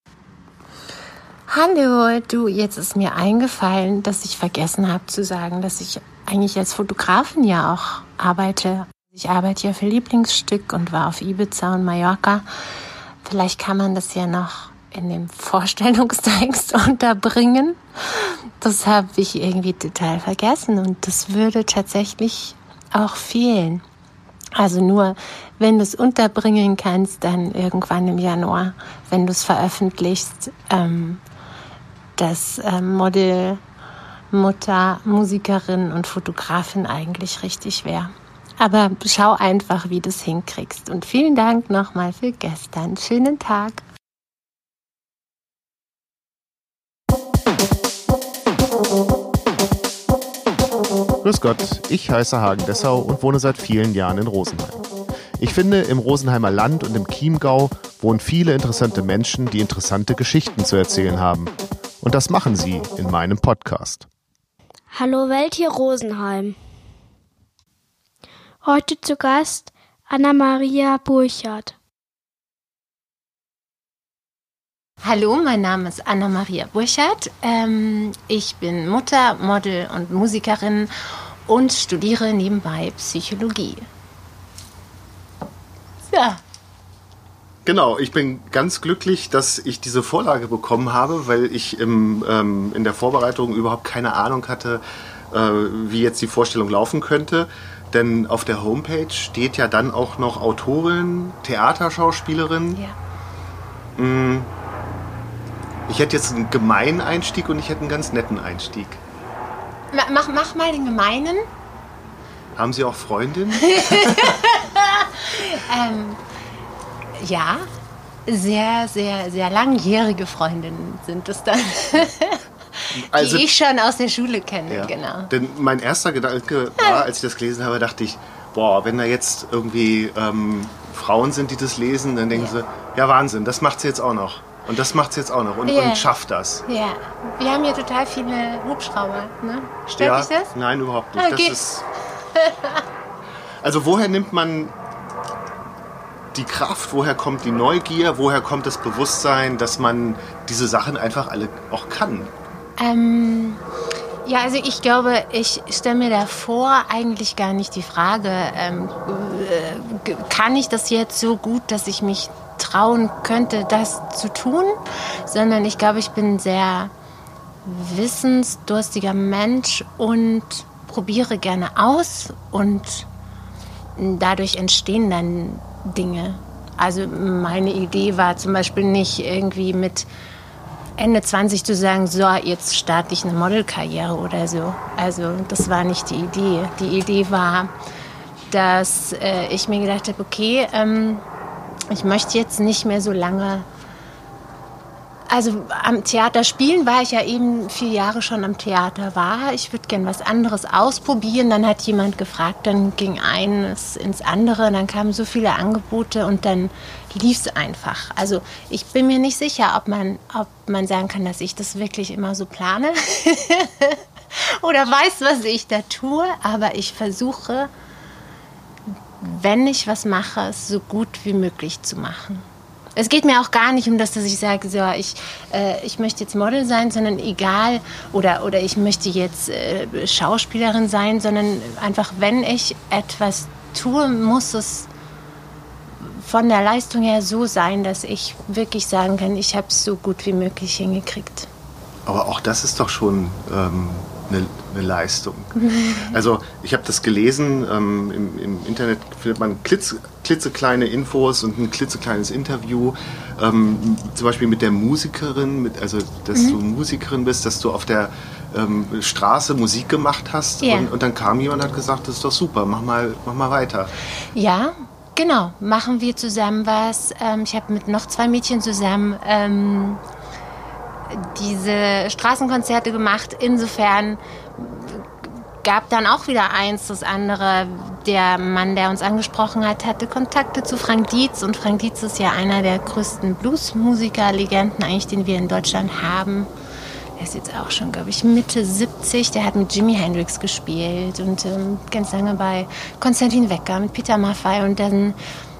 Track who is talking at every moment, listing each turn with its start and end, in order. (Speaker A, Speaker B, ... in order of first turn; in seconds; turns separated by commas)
Speaker A: 1.5-12.4, Speaker A: 13.2-23.8, Speaker A: 24.6-31.2, Speaker A: 32.2-33.6, Speaker A: 34.3-43.8, Speaker B: 51.2-54.8, Speaker B: 55.4-64.1, Speaker C: 64.9-66.5, Speaker C: 68.6-71.7, Speaker A: 75.0-83.8, Speaker A: 86.1-86.4, Speaker B: 87.6-102.8, Speaker B: 104.0-104.5, Speaker B: 105.9-109.0, Speaker A: 109.9-111.5, Speaker B: 112.5-114.4, Speaker A: 113.6-116.2, Speaker A: 117.2-117.7, Speaker A: 118.2-125.3, Speaker B: 122.9-123.5, Speaker B: 124.7-136.6, Speaker A: 126.8-127.0, Speaker A: 135.7-136.1, Speaker A: 136.7-140.5, Speaker B: 139.9-141.8, Speaker A: 141.2-141.7, Speaker A: 142.3-142.8, Speaker B: 143.6-144.7, Speaker B: 146.3-152.3, Speaker A: 152.8-153.6, Speaker A: 154.2-166.9, Speaker A: 167.6-173.1, Speaker A: 174.0-180.1, Speaker A: 181.0-187.7, Speaker A: 188.5-191.2, Speaker A: 191.9-193.7, Speaker A: 195.3-217.7, Speaker A: 219.2-234.9, Speaker A: 236.0-241.5, Speaker B: 242.1-245.5, Speaker A: 245.6-246.2, Speaker B: 246.1-263.9, Speaker A: 256.3-256.6, Speaker A: 260.6-260.9, Speaker A: 264.3-270.0, Speaker A: 271.1-286.5, Speaker A: 287.2-295.2